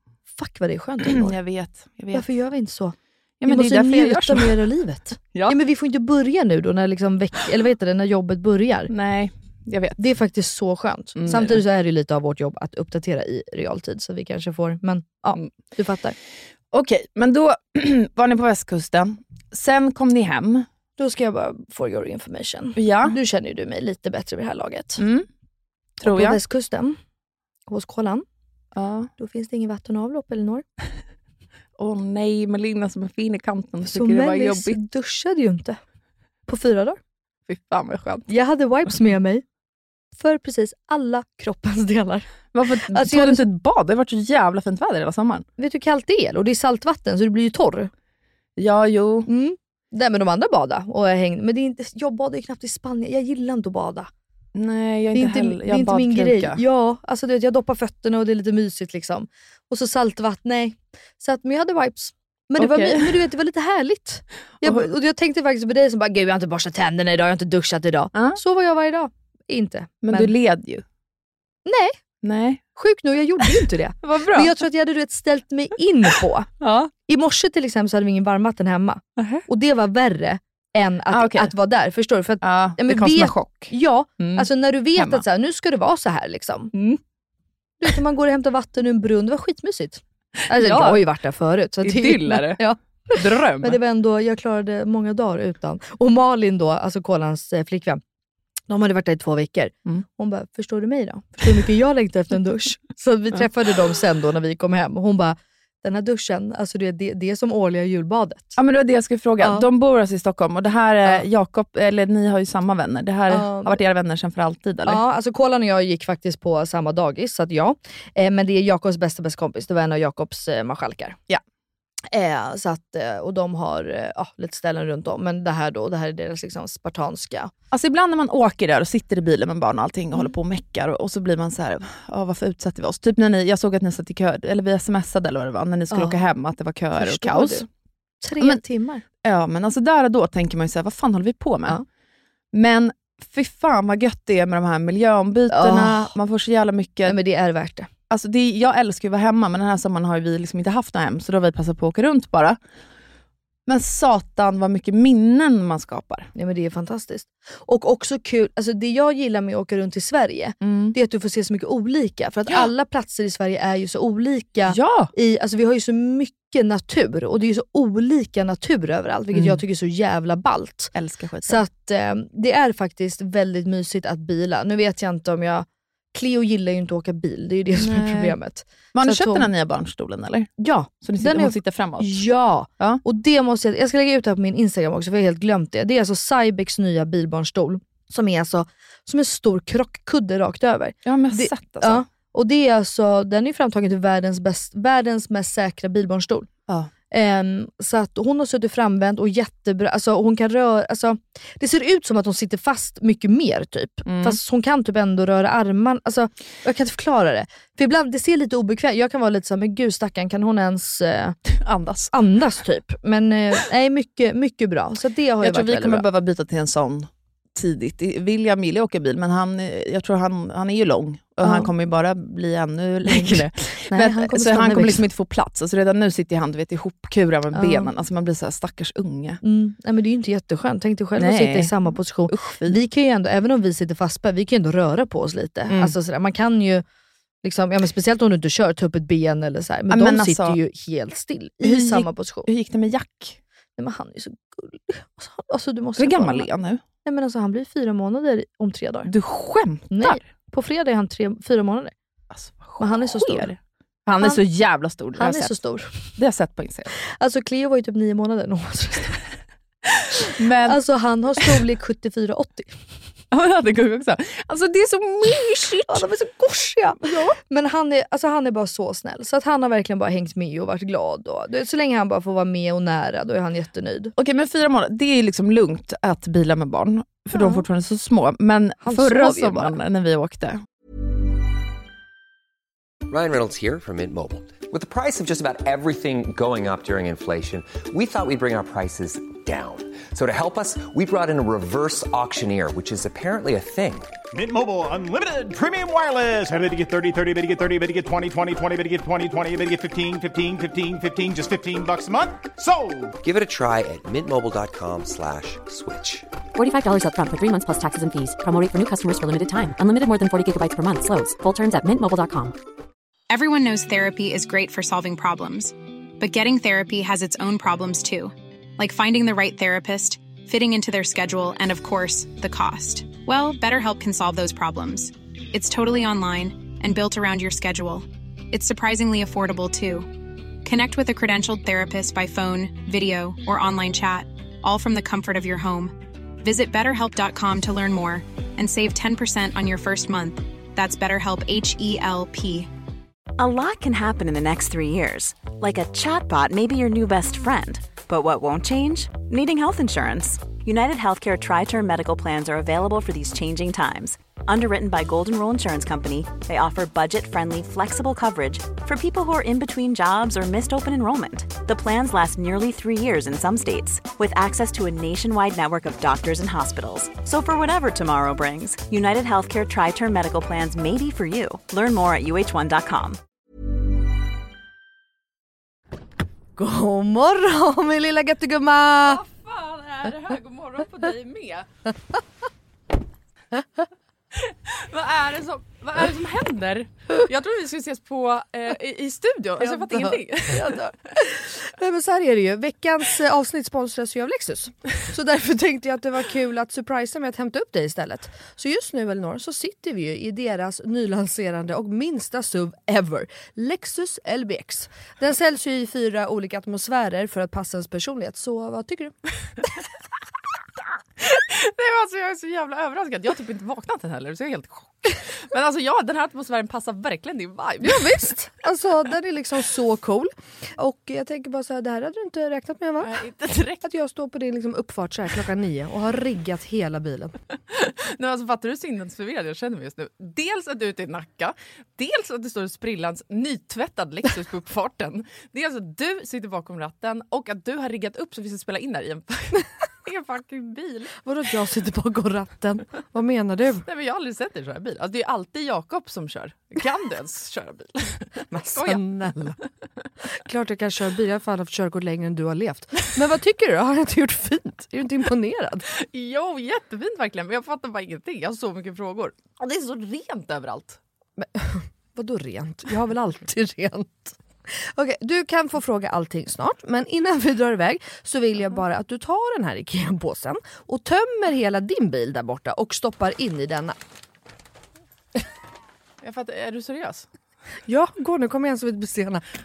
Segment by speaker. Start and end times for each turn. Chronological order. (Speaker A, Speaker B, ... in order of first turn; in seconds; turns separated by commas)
Speaker A: 0.3-1.4, Speaker B: 1.0-2.3, Speaker A: 2.1-8.9, Speaker B: 3.4-4.6, Speaker B: 8.9-10.0, Speaker A: 10.0-16.1, Speaker B: 11.2-11.6, Speaker B: 16.7-20.7, Speaker A: 21.0-25.0, Speaker B: 22.8-23.2, Speaker B: 25.0-25.3, Speaker A: 26.0-27.0, Speaker B: 26.0-26.4, Speaker A: 27.7-28.2, Speaker B: 28.7-29.1, Speaker A: 29.2-30.6, Speaker B: 31.8-34.8, Speaker A: 33.8-35.8, Speaker A: 36.5-37.0, Speaker B: 37.5-38.3, Speaker A: 38.3-39.4, Speaker A: 40.1-42.3, Speaker B: 42.5-45.5, Speaker A: 42.8-43.4, Speaker A: 45.6-47.9, Speaker B: 48.6-49.3, Speaker A: 49.3-54.1, Speaker B: 54.5-56.6, Speaker A: 55.1-70.3, Speaker B: 62.6-63.1, Speaker B: 64.6-64.9, Speaker B: 68.1-68.4, Speaker B: 70.0-70.8, Speaker A: 71.7-71.9, Speaker B: 72.2-72.6, Speaker A: 72.7-76.5, Speaker B: 74.0-74.5, Speaker B: 76.6-76.9, Speaker A: 77.0-86.7, Speaker B: 79.2-79.4, Speaker B: 81.1-81.5, Speaker B: 82.4-85.2, Speaker B: 86.7-87.0, Speaker A: 87.8-98.0, Speaker B: 90.5-91.0, Speaker B: 91.8-93.8, Speaker A: 98.7-108.6, Speaker B: 108.6-115.0, Speaker A: 109.4-109.7, Speaker A: 113.3-113.8, Speaker A: 114.8-121.2, Speaker A: 122.1-127.5, Speaker B: 127.7-137.7, Speaker A: 135.9-136.2, Speaker A: 136.9-137.7, Speaker A: 138.2-139.0, Speaker B: 139.2-141.8, Speaker B: 142.5-147.2, Speaker A: 145.5-146.1, Speaker A: 147.0-147.9, Speaker B: 148.1-152.6, Speaker B: 153.7-156.3, Speaker A: 156.3-170.9, Speaker B: 160.6-160.9, Speaker B: 164.7-165.1, Speaker B: 169.3-169.6, Speaker B: 170.9-171.6, Speaker A: 171.4-179.5, Speaker B: 177.7-178.4, Speaker B: 178.9-180.5, Speaker A: 180.6-196.5, Speaker B: 181.0-182.2, Speaker B: 191.0-192.0, Speaker A: 197.1-211.4, Speaker B: 204.1-204.4, Speaker B: 211.5-212.1, Speaker A: 212.1-216.0, Speaker B: 215.4-229.4, Speaker A: 221.4-221.7, Speaker A: 223.1-225.0, Speaker A: 227.5-227.9, Speaker A: 229.4-236.8, Speaker B: 231.2-232.8, Speaker B: 235.7-235.9, Speaker A: 237.4-242.5, Speaker B: 239.9-240.6, Speaker B: 241.6-243.4, Speaker A: 243.8-246.5, Speaker B: 246.0-246.8, Speaker A: 247.0-249.1, Speaker B: 249.0-250.2, Speaker A: 249.9-251.9, Speaker B: 252.3-255.6, Speaker A: 252.8-253.5, Speaker A: 255.1-256.0, Speaker B: 256.1-256.9, Speaker A: 257.0-259.2, Speaker B: 260.1-260.8, Speaker A: 260.6-262.7, Speaker B: 263.3-266.1, Speaker A: 265.9-274.1, Speaker B: 267.0-267.4, Speaker B: 274.2-280.6, Speaker A: 277.3-277.6, Speaker A: 278.8-279.8, Speaker C: 283.1-294.1, Speaker D: 294.3-303.1, Speaker C: 303.2-306.3, Speaker E: 306.5-312.5, Speaker F: 313.3-330.1, Speaker F: 330.6-342.7, Speaker G: 343.4-373.2, Speaker A: 376.6-379.2, Speaker B: 379.0-381.7, Speaker B: 384.3-390.8, Speaker A: 389.6-409.1, Speaker B: 411.2-418.5, Speaker A: 418.0-423.1, Speaker B: 423.0-423.9, Speaker A: 423.8-427.3, Speaker B: 427.7-441.1, Speaker A: 441.2-443.9, Speaker B: 443.8-449.1, Speaker A: 448.5-449.6, Speaker A: 450.4-455.9, Speaker B: 455.9-461.0, Speaker A: 461.4-474.0, Speaker B: 476.2-477.3, Speaker A: 477.9-479.4